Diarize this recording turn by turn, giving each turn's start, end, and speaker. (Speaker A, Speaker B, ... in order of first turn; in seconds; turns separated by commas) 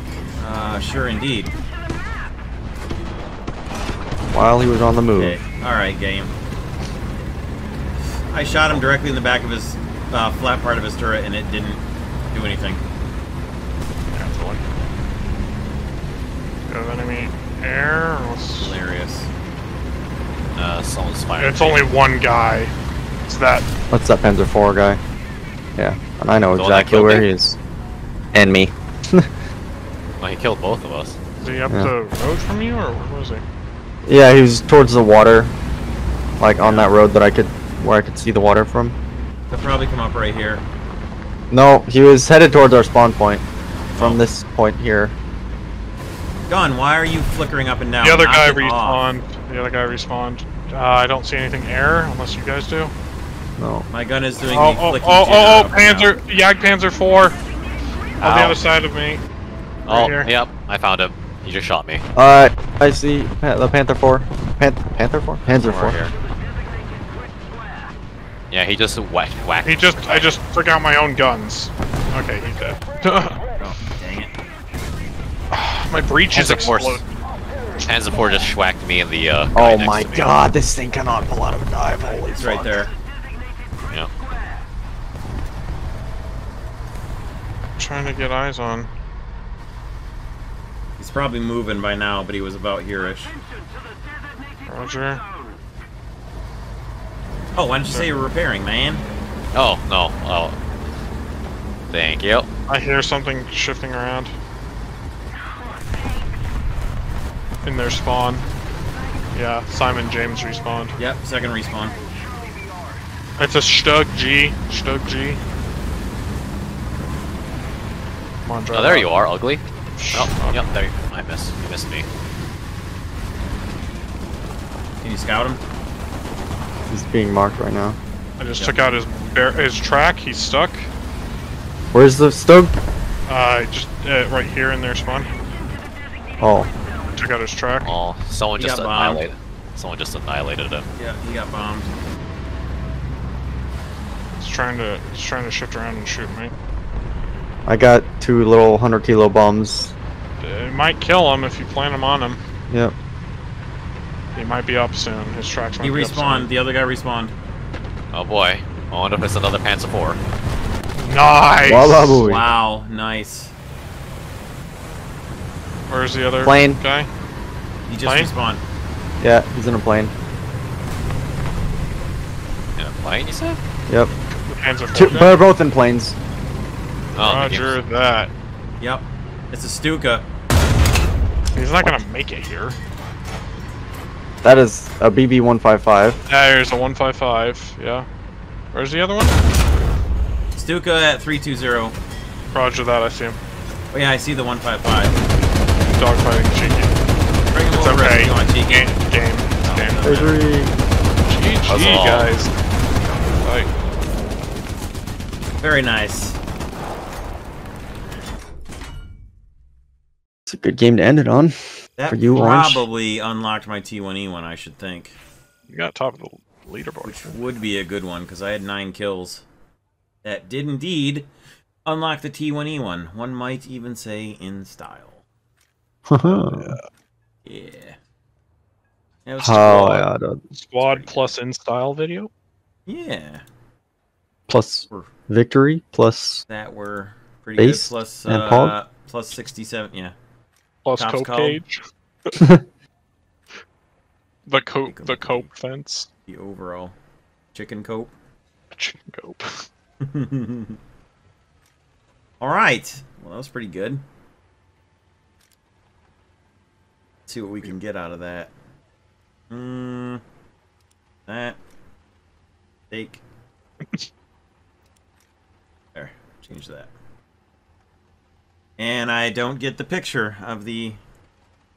Speaker A: 0.4-1.5, Speaker B: 4.3-5.4, Speaker A: 5.2-6.3, Speaker A: 8.3-11.8, Speaker A: 12.3-12.8, Speaker C: 14.1-14.6, Speaker C: 16.7-18.8, Speaker A: 18.6-19.3, Speaker D: 20.5-21.9, Speaker C: 21.4-22.7, Speaker C: 23.3-23.7, Speaker B: 23.9-25.0, Speaker B: 25.8-27.6, Speaker D: 26.5-27.3, Speaker B: 28.3-29.3, Speaker D: 30.2-31.2, Speaker C: 31.4-33.4, Speaker B: 34.0-35.5, Speaker B: 36.4-38.9, Speaker A: 39.5-40.6, Speaker B: 41.5-43.4, Speaker B: 44.0-45.1, Speaker A: 46.5-49.1, Speaker C: 48.0-52.9, Speaker B: 53.6-53.9, Speaker A: 53.9-56.1, Speaker C: 54.5-57.4, Speaker C: 58.2-59.2, Speaker D: 58.2-58.6, Speaker D: 59.9-62.0, Speaker C: 59.9-60.3, Speaker B: 62.1-66.0, Speaker D: 65.5-66.1, Speaker D: 68.5-70.3, Speaker C: 69.6-73.4, Speaker A: 73.6-74.3, Speaker C: 75.5-77.0, Speaker D: 76.3-77.0, Speaker D: 77.8-80.3, Speaker B: 79.5-82.9, Speaker A: 82.3-82.9, Speaker C: 87.8-88.9, Speaker A: 91.0-93.3, Speaker C: 94.7-95.2, Speaker A: 97.5-99.0, Speaker D: 99.5-100.5, Speaker D: 101.9-102.5, Speaker C: 102.7-104.3, Speaker C: 107.6-108.4, Speaker C: 109.3-110.9, Speaker A: 111.0-111.9, Speaker C: 113.4-115.4, Speaker C: 118.4-119.1, Speaker D: 118.7-122.0, Speaker C: 119.9-120.6, Speaker A: 125.0-125.6, Speaker B: 126.9-128.0, Speaker C: 128.4-130.9, Speaker B: 131.9-132.7, Speaker C: 133.3-135.3, Speaker B: 136.4-136.7, Speaker C: 137.2-137.9, Speaker D: 137.8-140.8, Speaker A: 138.6-139.2, Speaker A: 141.0-141.9, Speaker C: 144.4-146.5, Speaker B: 147.7-149.9, Speaker C: 150.4-152.4, Speaker C: 154.3-156.5, Speaker A: 155.8-157.3, Speaker D: 158.1-160.2, Speaker C: 161.0-162.2, Speaker B: 161.6-162.4, Speaker A: 162.2-163.5, Speaker C: 165.9-167.1, Speaker B: 166.4-166.8, Speaker A: 167.9-168.6, Speaker C: 168.0-168.3, Speaker B: 169.2-170.1, Speaker D: 172.8-173.6, Speaker C: 174.4-175.4, Speaker B: 174.9-176.2, Speaker D: 177.1-177.8, Speaker C: 177.1-178.3, Speaker A: 178.8-180.2, Speaker C: 181.5-182.8, Speaker B: 184.4-186.2, Speaker C: 186.3-188.1, Speaker C: 188.7-189.4, Speaker A: 190.6-191.9, Speaker C: 192.5-193.4, Speaker A: 193.9-195.1, Speaker C: 195.9-196.9, Speaker A: 197.5-198.9, Speaker C: 197.7-200.4, Speaker A: 199.6-200.3, Speaker B: 200.0-200.7, Speaker C: 201.2-202.5, Speaker D: 201.7-202.3, Speaker C: 203.3-203.7, Speaker A: 205.6-206.4, Speaker B: 210.4-211.5, Speaker A: 212.0-215.2, Speaker B: 212.1-212.8, Speaker C: 215.7-217.3, Speaker A: 217.0-219.4, Speaker A: 220.2-221.3, Speaker A: 221.8-225.2, Speaker B: 226.1-226.8, Speaker C: 226.2-226.9, Speaker A: 227.4-228.0, Speaker A: 229.2-230.0, Speaker B: 229.4-230.4, Speaker C: 229.7-230.0, Speaker C: 230.5-232.3, Speaker A: 230.8-231.3, Speaker A: 232.8-233.4, Speaker B: 234.5-236.4, Speaker A: 236.5-240.1, Speaker B: 237.6-238.7, Speaker C: 240.8-242.4, Speaker A: 241.0-241.6, Speaker B: 242.3-242.6, Speaker C: 244.4-246.1, Speaker A: 244.8-245.5, Speaker A: 246.3-246.9, Speaker A: 247.5-248.1, Speaker C: 248.7-249.7, Speaker A: 250.0-250.8, Speaker A: 252.4-254.0, Speaker A: 257.3-258.5, Speaker A: 259.5-260.2, Speaker A: 261.3-261.6, Speaker A: 262.9-263.2, Speaker A: 265.9-266.9, Speaker A: 268.8-271.0